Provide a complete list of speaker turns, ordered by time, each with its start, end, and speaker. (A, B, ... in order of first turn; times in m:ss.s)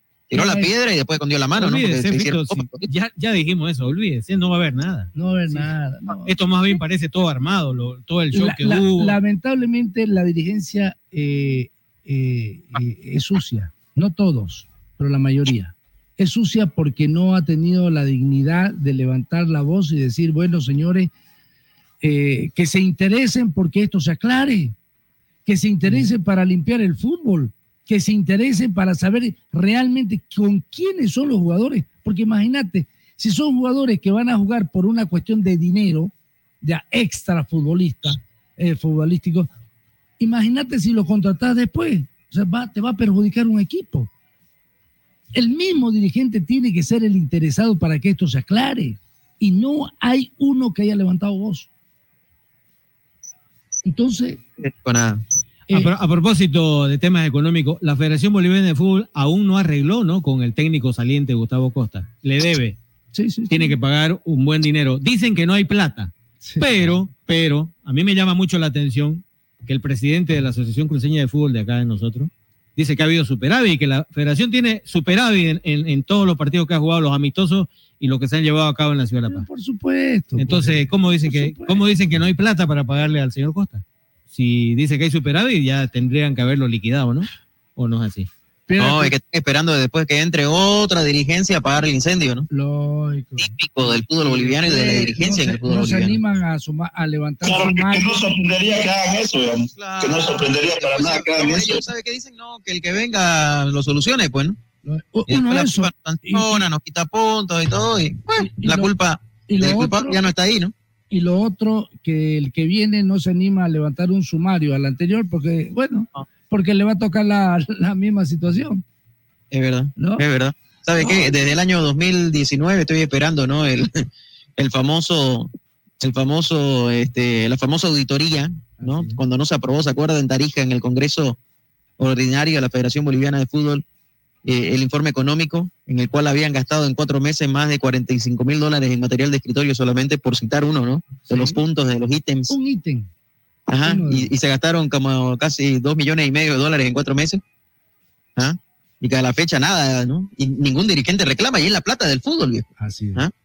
0:00.3-0:02.9 A
0:00.3-0:00.7 B
0:01.6-0:09.2 C
0:05.2-0:06.8 B
0:08.3-0:21.1 B
0:22.0-0:24.8 B
0:25.5-0:39.5 B
0:40.2-0:44.1 B
0:45.3-0:51.7 B
0:53.9-0:54.4 B
0:54.6-0:55.2 A
0:55.7-1:02.8 C
1:03.1-1:03.8 B
1:03.5-1:19.5 C
1:06.4-1:07.0 B
1:19.3-1:21.9 B
1:20.4-1:28.3 C
1:28.7-1:29.2 B
1:28.8-1:32.5 A
1:32.5-1:38.3 B
1:33.4-1:36.2 A
1:37.4-1:41.8 D
1:39.7-1:44.6 A
1:44.8-1:46.7 B
1:45.3-1:50.7 A
1:48.4-1:49.0 B
1:49.5-1:50.2 B
1:51.1-1:58.8 B
1:59.5-2:04.1 A
2:00.0-2:00.2 B
2:01.0-2:01.3 B
2:04.6-2:11.4 A
2:08.8-2:09.2 B
2:12.0-2:13.8 A
2:14.4-2:22.5 A
2:21.3-2:21.6 B
2:22.5-2:23.1 B
2:23.7-2:27.4 A
2:23.8-2:24.3 B
2:28.4-2:33.3 A
2:32.8-2:33.3 B